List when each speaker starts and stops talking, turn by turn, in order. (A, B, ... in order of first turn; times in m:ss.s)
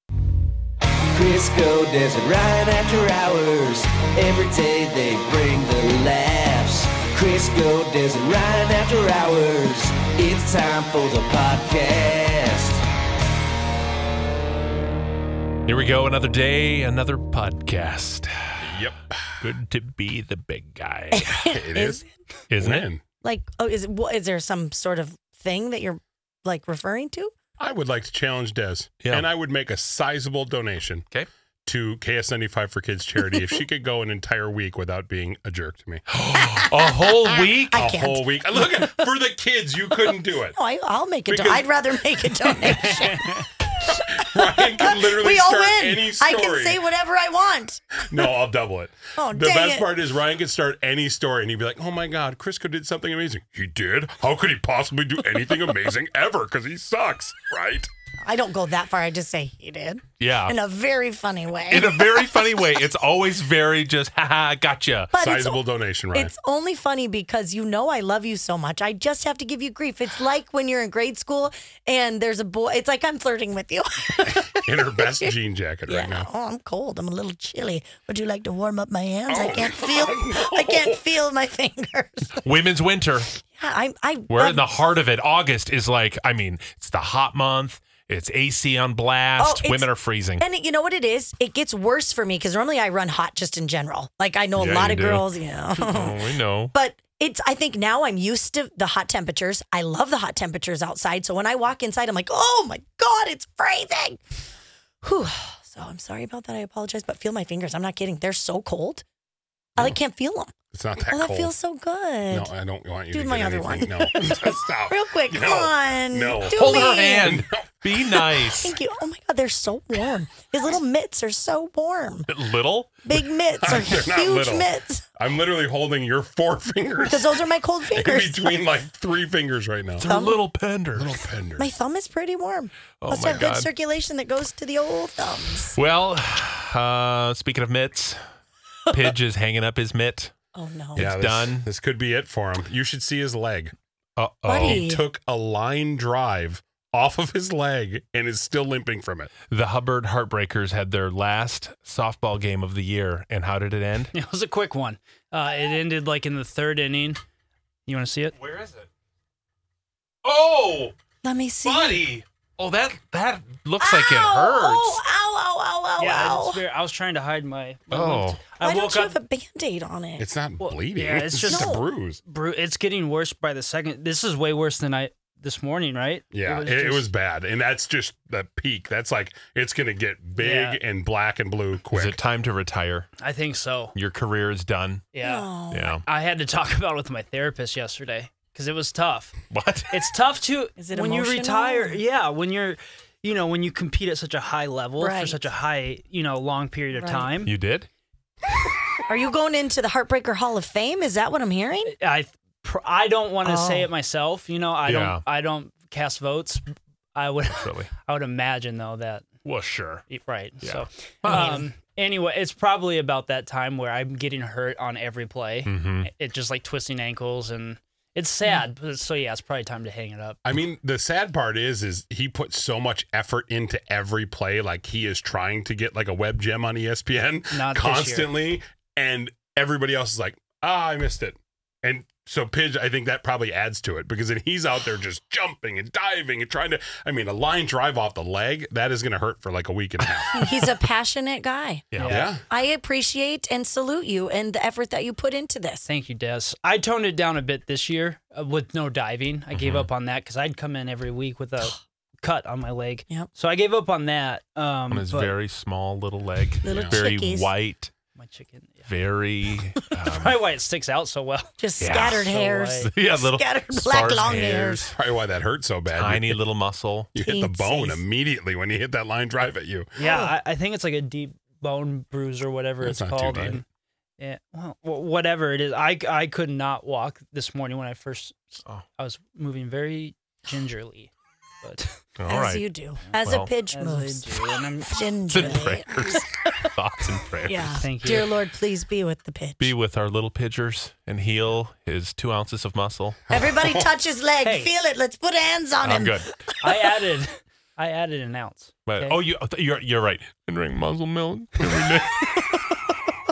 0:01.1-0:12.8 A
0:15.6-0:18.8 B
0:18.6-0:19.3 C
0:19.4-0:21.3 B
0:21.1-0:22.1 D
0:21.5-0:22.0 C
0:22.5-0:22.9 B
0:22.6-0:23.0 C
0:23.2-0:27.3 D
0:27.6-0:31.0 C
0:31.6-0:36.0 C
0:36.1-0:37.9 B
0:36.4-0:37.1 D
0:37.3-0:40.6 C
0:37.6-0:39.0 D
0:40.5-0:48.3 D
0:41.3-0:41.7 C
0:42.7-0:43.4 E
0:43.9-0:46.8 C
0:48.1-0:57.9 C
0:49.2-0:49.9 D
0:58.2-1:02.1 D
1:00.2-1:00.6 B
1:01.7-1:05.1 B
1:05.1-1:05.6 D
1:05.2-1:06.3 C
1:06.1-1:15.3 D
1:14.5-1:16.3 C
1:15.9-1:22.4 D
1:19.3-1:21.0 C
1:22.4-1:23.3 B
1:23.4-1:24.6 D
1:24.3-1:30.4 B
1:29.4-1:36.1 D
1:34.6-1:36.7 B
1:36.7-1:44.2 D
1:45.0-1:49.0 D
1:49.8-1:50.5 D
1:50.7-1:51.5 C
1:51.1-1:52.5 D
1:52.3-1:57.7 C
1:53.1-1:57.4 D
1:56.5-1:58.8 B
1:58.4-2:02.3 D
2:02.3-2:03.0 B
2:03.0-2:05.0 D
2:03.6-2:10.1 C
2:07.0-2:08.6 D
2:10.0-2:11.1 B
2:10.0-2:10.4 D
2:11.0-2:11.7 C
2:11.6-2:15.8 D
2:13.0-2:13.7 B
2:15.8-2:18.2 B
2:18.9-2:20.3 B
2:20.5-2:21.1 D
2:20.9-2:21.7 B
2:21.0-2:23.7 C
2:24.2-2:24.8 B
2:24.4-2:25.0 D
2:24.6-2:29.3 C
2:29.5-2:34.1 B
2:34.1-2:37.2 E
2:37.8-2:38.3 E
2:38.3-2:38.9 B
2:40.2-2:40.9 B
2:41.2-2:42.1 D
2:41.6-2:45.0 B
2:43.8-2:46.6 D
2:46.0-2:49.2 E
2:47.9-2:48.4 B
2:48.6-2:50.3 D
2:50.2-2:52.2 C
2:50.6-2:57.1 E
2:51.5-2:51.9 D
2:56.3-3:02.2 C
3:00.4-3:00.8 E
3:01.9-3:03.1 B
3:03.2-3:03.9 E
3:03.9-3:05.0 B
3:05.1-3:05.5 E
3:05.2-3:06.0 D
3:05.7-3:06.0 B
3:06.0-3:09.4 E
3:09.5-3:09.9 B
3:09.9-3:17.5 E
3:10.8-3:12.0 D
3:15.0-3:15.4 D
3:16.9-3:17.3 D
3:17.4-3:17.9 B
3:19.0-3:21.9 D
3:21.8-3:29.2 E
3:23.4-3:23.9 D
3:24.8-3:25.2 B
3:27.5-3:27.9 B
3:29.4-3:30.1 B
3:30.1-3:40.4 E
3:30.6-3:31.6 B
3:31.3-3:31.6 D
3:35.6-3:36.1 B
3:40.4-4:00.5 C
3:47.5-3:48.4 E
4:00.3-4:01.8 D
4:01.9-4:02.2 B
4:02.0-4:02.3 E
4:02.1-4:02.4 C
4:02.5-4:05.8 D
4:05.8-4:15.3 E
4:09.5-4:09.9 B
4:14.9-4:17.9 B
4:16.6-4:17.5 D
4:16.7-4:17.0 C
4:18.2-4:18.9 E
4:18.9-4:20.4 B
4:20.1-4:21.5 E
4:21.6-4:24.9 D
4:21.8-4:24.9 B
4:22.2-4:22.9 E
4:24.9-4:26.4 C
4:25.9-4:27.2 B
4:27.1-4:29.9 C
4:27.2-4:28.0 D
4:30.0-4:33.6 E
4:30.0-4:30.3 D
4:32.8-4:33.6 C
4:34.2-4:41.8 E
4:42.2-4:42.6 B
4:42.2-4:46.7 D
4:43.2-4:43.5 B
4:43.7-4:45.7 E
4:45.3-4:47.8 B
4:47.4-4:49.7 D
4:47.8-4:48.3 E
4:49.6-4:53.2 B
4:53.3-4:56.5 D
4:54.4-4:54.7 E
4:55.8-4:56.3 B
4:56.6-4:59.2 E
4:58.8-5:02.6 B